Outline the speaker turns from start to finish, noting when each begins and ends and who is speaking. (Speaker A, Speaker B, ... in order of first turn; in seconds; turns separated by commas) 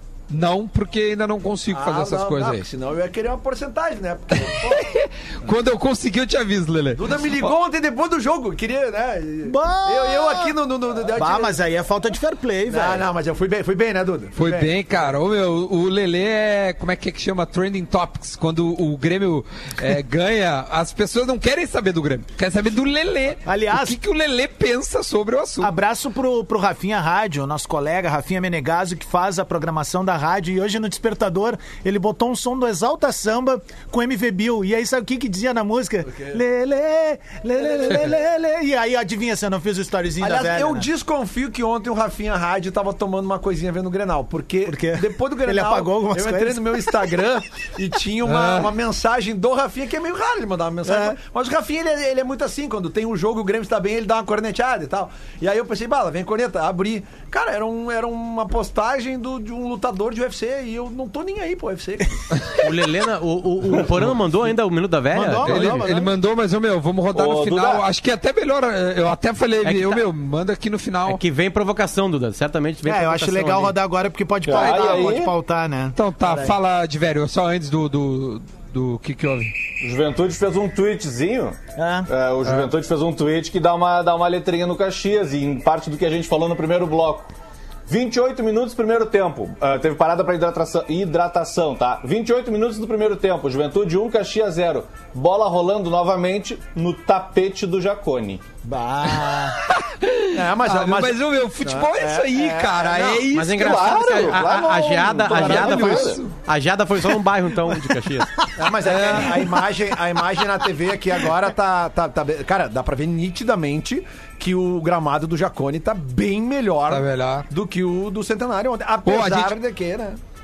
Speaker A: 0.3-2.7, Speaker B: 1.7-4.9, Speaker A: 4.4-7.5, Speaker B: 7.0-11.6, Speaker C: 9.5-10.5, Speaker C: 11.2-13.1, Speaker B: 12.7-15.0, Speaker A: 14.3-25.7, Speaker C: 23.5-24.0, Speaker C: 25.6-40.9, Speaker B: 36.1-36.4, Speaker B: 40.2-62.2, Speaker C: 44.7-47.0, Speaker A: 48.3-48.7, Speaker C: 50.9-51.2, Speaker D: 62.6-65.8, Speaker C: 65.1-66.1, Speaker A: 65.3-71.2, Speaker E: 67.1-67.8, Speaker D: 69.6-70.1, Speaker D: 71.1-73.8, Speaker C: 72.8-76.5, Speaker E: 74.5-75.3, Speaker A: 74.5-75.0, Speaker A: 76.0-79.5, Speaker E: 79.8-81.6, Speaker C: 81.8-82.1, Speaker E: 82.1-87.3, Speaker E: 87.9-98.4, Speaker C: 98.6-99.6, Speaker A: 99.6-104.4, Speaker B: 100.3-103.3, Speaker D: 103.3-108.3, Speaker E: 103.5-106.2, Speaker A: 105.3-106.3, Speaker B: 108.6-120.2, Speaker A: 108.8-109.4, Speaker A: 116.9-117.5, Speaker A: 119.0-119.6